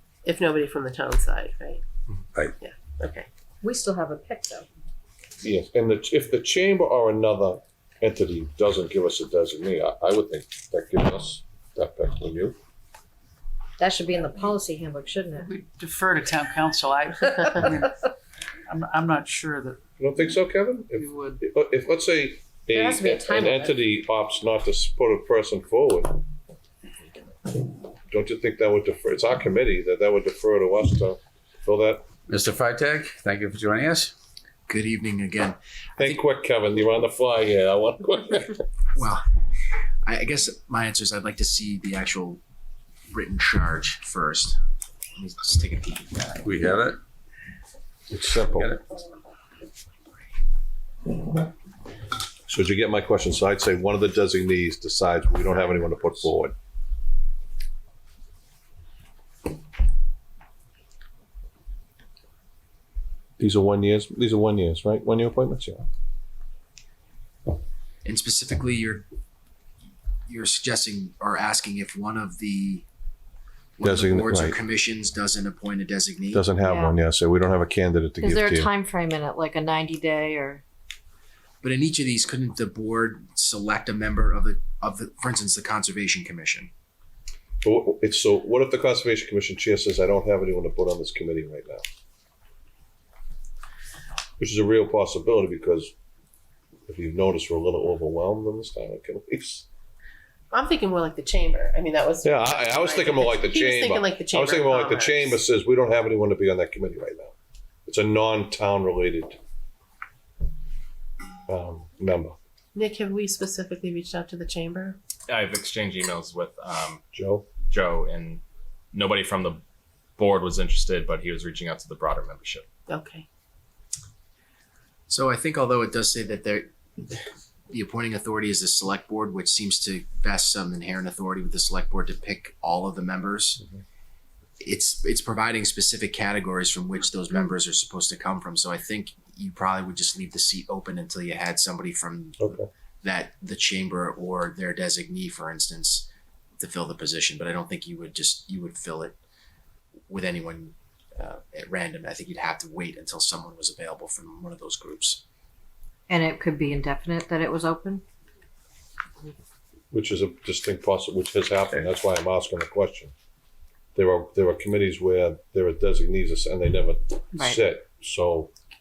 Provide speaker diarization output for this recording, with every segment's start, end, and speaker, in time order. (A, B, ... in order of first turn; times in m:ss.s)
0:00.2-0:01.8 A
0:02.6-0:03.3 A
0:03.6-0:04.6 B
0:05.4-0:12.6 C
0:13.8-0:15.5 B
0:15.4-0:18.1 D
0:18.7-0:19.8 D
0:20.0-0:26.2 C
0:21.0-0:21.4 D
0:22.7-0:23.8 B
0:28.1-0:32.0 C
0:32.3-0:34.1 E
0:34.7-0:36.2 F
0:36.0-0:38.6 C
0:38.9-0:39.2 F
0:40.0-0:42.4 F
0:43.1-0:44.6 F
0:45.2-0:46.4 F
0:46.4-0:47.0 E
0:48.1-0:48.7 C
0:48.5-0:48.8 E
0:52.5-0:56.5 C
0:55.5-0:56.0 F
1:03.4-1:05.8 C
1:08.0-1:09.1 F
1:10.3-1:12.8 F
1:13.8-1:16.4 F
1:13.8-1:14.6 C
1:16.3-1:18.7 C
1:16.6-1:17.0 B
1:18.2-1:20.6 B
1:21.6-1:26.7 F
1:27.6-1:31.8 C
1:34.4-1:35.9 C
1:36.9-1:39.6 C
1:40.5-1:45.4 A
1:42.2-1:47.3 C
1:47.9-1:49.4 C
1:51.5-1:52.3 C
1:52.7-1:55.0 A
1:55.3-1:57.0 G
1:57.1-1:57.5 C
1:57.7-1:58.4 G
1:58.9-1:59.6 G
2:00.2-2:02.7 G
2:02.9-2:03.2 A
2:05.1-2:13.6 F
2:14.6-2:26.1 F
2:22.4-2:22.7 C
2:26.6-2:29.2 F
2:30.1-2:35.2 F
2:36.1-2:38.0 B
2:39.9-2:43.1 C
2:43.9-2:48.5 C